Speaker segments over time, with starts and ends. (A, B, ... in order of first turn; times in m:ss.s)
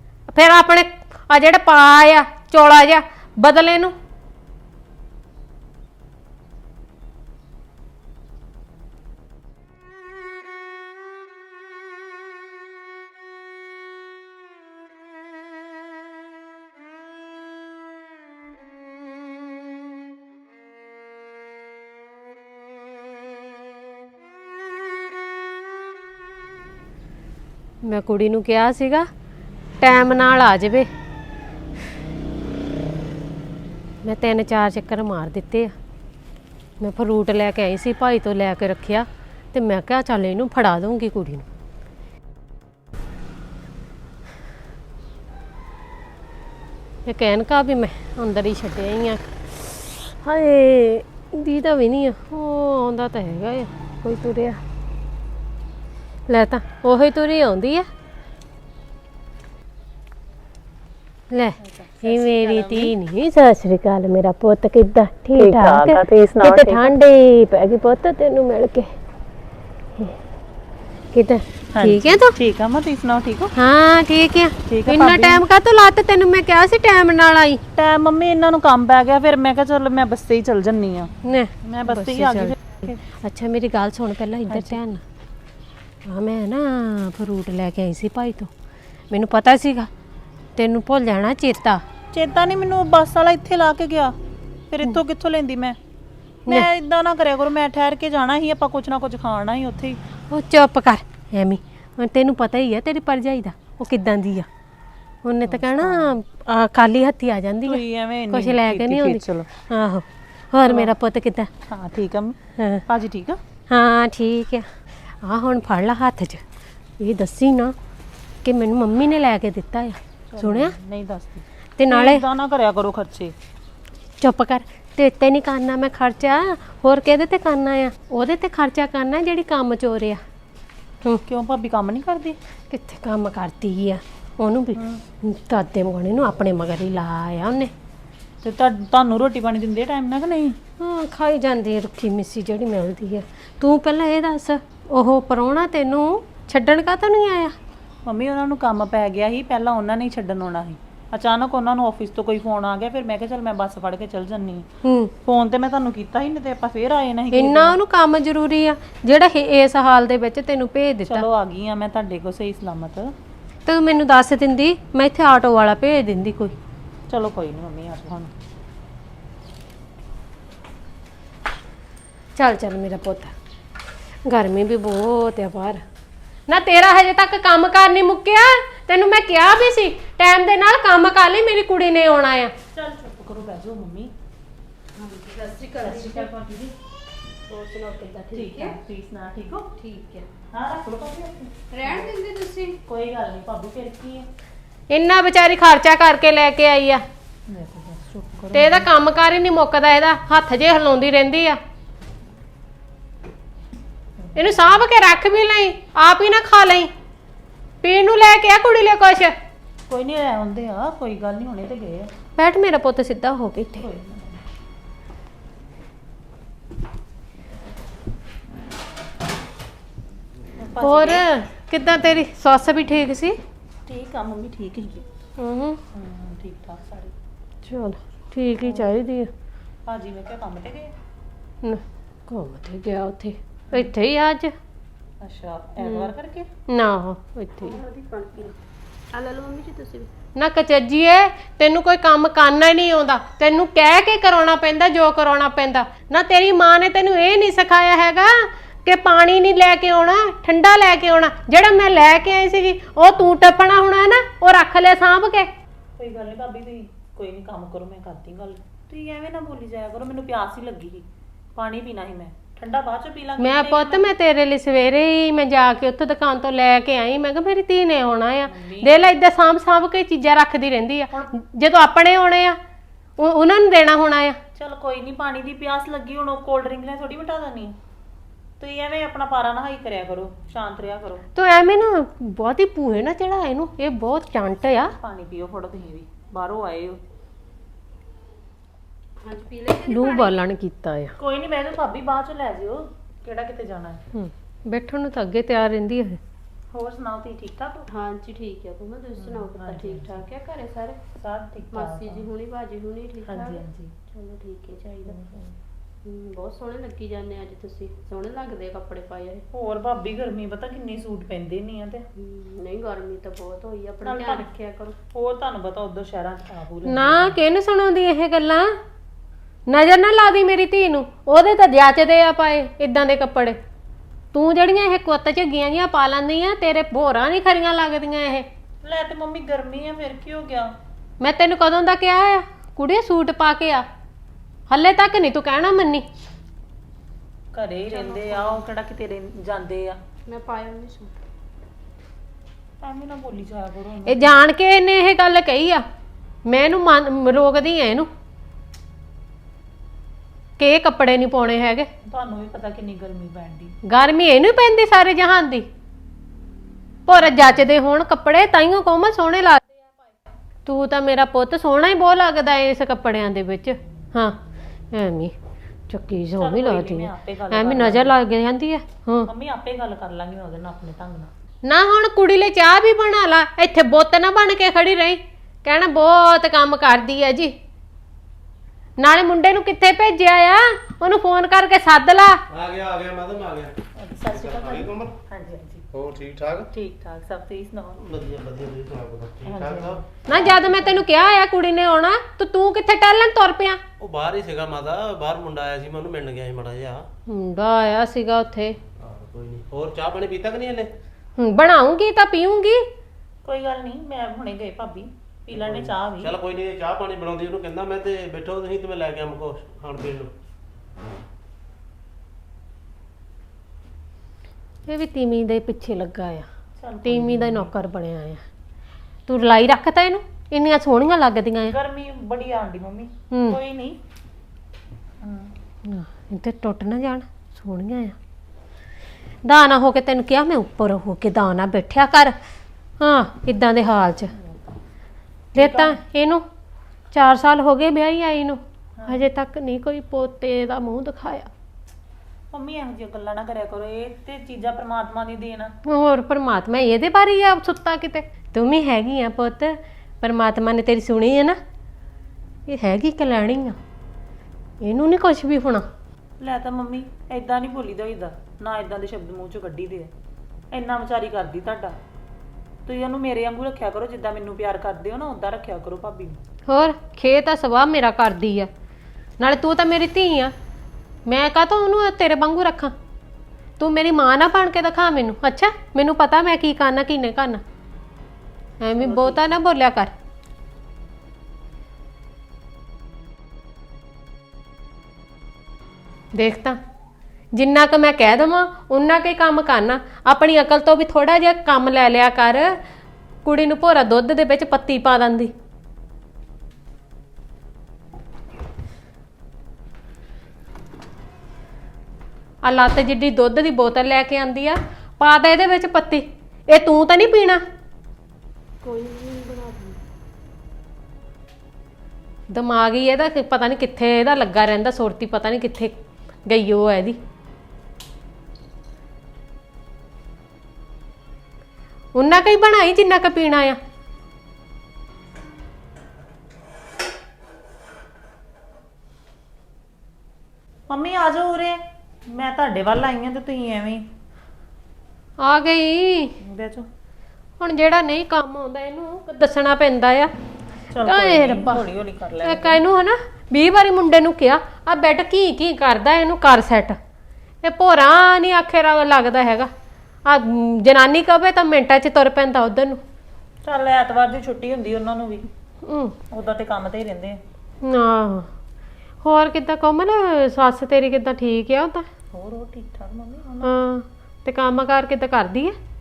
0:00.3-0:03.9 A
0:27.8-0:29.1 A
0:29.8-0:30.9 A
0:34.0-0:35.7 A
0:36.8-0:41.4 A
0:47.1-0:54.6 A
0:56.3-0:57.9 A
1:01.3-1:08.9 A
1:01.6-1:02.9 B
1:05.4-1:07.0 B
1:11.1-1:12.3 A
1:11.7-1:13.5 B
1:13.6-1:17.6 A
1:14.7-1:15.4 B
1:17.8-1:21.1 B
1:21.2-1:22.6 A
1:21.6-1:23.0 B
1:23.1-1:25.0 A
1:24.5-1:24.8 B
1:26.1-1:28.5 A
1:29.1-1:29.9 A
1:30.6-1:31.8 A
1:32.1-1:34.2 B
1:34.7-1:35.8 B
1:36.4-1:40.0 B
1:40.3-1:44.5 A
1:45.2-1:51.5 A
1:45.4-1:46.2 B
1:47.6-1:49.5 B
1:50.6-1:50.9 B
1:51.7-1:53.4 B
1:53.7-1:54.7 A
1:55.2-1:56.4 A
1:57.0-1:57.8 A
1:58.4-2:00.7 A
2:00.3-2:03.4 B
2:01.8-2:02.2 A
2:04.2-2:10.2 A
2:11.2-2:12.4 B
2:12.7-2:17.7 A
2:14.8-2:15.0 B
2:18.4-2:20.6 B
2:20.8-2:27.6 A
2:28.1-2:34.7 B
2:34.8-2:35.1 A
2:35.2-2:37.8 B
2:37.3-2:41.2 A
2:41.0-2:43.1 B
2:43.7-2:46.6 A
2:47.1-2:48.3 B
2:52.4-2:53.3 A
2:54.2-2:55.8 A
2:56.5-3:02.5 A
3:02.7-3:04.1 B
3:05.0-3:06.3 C
3:05.8-3:06.7 B
3:07.5-3:08.8 C
3:08.3-3:09.7 B
3:09.8-3:10.2 C
3:10.5-3:12.1 B
3:11.7-3:12.8 C
3:12.9-3:14.2 B
3:14.9-3:17.0 A
3:17.5-3:18.9 B
3:18.5-3:21.6 A
3:24.4-3:26.9 A
3:27.8-3:29.4 A
3:29.9-3:32.1 B
3:32.4-3:33.8 A
3:33.8-3:34.4 B
3:40.6-3:41.2 B
3:40.8-3:43.4 A
3:43.9-3:45.0 B
3:45.4-3:45.8 A
3:45.9-3:47.1 B
3:47.6-3:49.3 A
3:48.6-3:48.9 B
3:49.9-3:50.9 B
3:51.6-3:54.5 A
3:55.2-3:56.5 B
3:55.8-3:56.1 A
3:56.7-3:57.8 A
3:57.6-3:58.6 C
3:59.1-4:00.1 C
4:00.4-4:15.5 A
4:16.0-4:21.0 B
4:21.6-4:24.1 B
4:23.4-4:32.6 A
4:28.5-4:29.0 B
4:33.2-4:34.4 A
4:34.6-4:37.8 B
4:38.6-4:41.2 B
4:41.4-4:44.9 A
4:45.0-4:47.0 B
4:49.2-4:50.4 C
4:49.8-4:51.2 A
4:51.2-4:54.0 B
4:54.1-4:56.2 A
4:56.7-4:57.8 B
4:57.9-5:01.0 C
4:59.2-5:00.2 B
5:01.2-5:02.3 B
5:01.7-5:05.2 C
5:03.3-5:03.9 B
5:05.0-5:05.6 B
5:06.0-5:09.4 C
5:09.5-5:12.0 B
5:12.2-5:15.0 C
5:14.0-5:14.5 B
5:15.1-5:17.4 B
5:16.9-5:18.8 A
5:19.7-5:23.6 A
5:24.3-5:28.4 A
5:28.8-5:30.7 B
5:31.2-5:33.8 A
5:34.7-5:36.1 A
5:37.5-5:40.0 B
5:37.9-5:38.6 C
5:40.3-5:41.2 C
5:42.8-5:44.4 B
5:44.1-5:45.8 A
5:46.4-5:48.1 A
5:50.6-5:51.9 A
5:52.1-5:53.8 B
5:53.8-5:55.7 A
5:57.1-5:59.8 A
6:00.7-6:04.4 A
6:04.9-6:05.3 A
6:05.9-6:09.3 A
6:06.4-6:08.2 B
6:09.3-6:11.3 B
6:11.6-6:17.5 A
6:19.0-6:22.4 A
6:22.5-6:23.8 D
6:24.0-6:25.8 B
6:24.3-6:25.1 D
6:25.9-6:26.7 D
6:26.7-6:28.0 B
6:28.0-6:30.0 D
6:29.4-6:31.0 B
6:30.3-6:33.8 A
6:34.0-6:37.0 D
6:37.3-6:38.8 A
6:39.0-6:40.9 D
6:41.4-6:42.9 A
6:43.4-6:46.3 B
6:45.5-6:50.3 D
6:54.9-6:56.5 A
6:56.8-6:57.7 B
6:57.0-6:58.4 A
6:59.3-7:01.7 A
7:01.7-7:04.0 B
7:03.3-7:03.6 A
7:05.2-7:05.5 B
7:05.9-7:08.2 A
7:09.4-7:12.3 A
7:13.0-7:14.3 A
7:14.3-7:14.6 B
7:15.6-7:16.0 B
7:15.6-7:16.4 A
7:17.1-7:21.5 A
7:19.0-7:19.2 B
7:22.5-7:25.7 B
7:25.8-7:31.6 A
7:32.7-7:33.8 A
7:34.8-7:35.8 A
7:36.4-7:40.1 B
7:40.7-7:42.0 B
7:42.8-7:46.4 B
7:46.7-7:48.7 A
7:49.4-7:50.5 A
7:51.3-7:52.9 A
7:53.8-7:57.6 A
7:58.8-8:00.1 A
7:59.0-7:59.4 B
8:06.3-8:06.8 A
8:07.5-8:12.8 A
8:13.4-8:15.5 A
8:22.6-8:27.6 A
8:28.8-8:30.0 C
8:32.5-8:37.2 A
8:42.1-8:43.8 A
8:50.9-8:54.0 B
8:55.4-8:56.3 A
8:56.4-8:56.9 B
8:57.6-9:00.3 A
9:00.9-9:02.8 B
9:01.0-9:01.8 A
9:02.4-9:07.0 A
9:07.6-9:09.7 A
9:10.2-9:13.0 A
9:13.6-9:15.5 B
9:15.8-9:16.1 A
9:16.3-9:17.4 B
9:17.8-9:18.5 A
9:19.2-9:22.1 A
9:22.3-9:23.7 B
9:23.6-9:25.8 A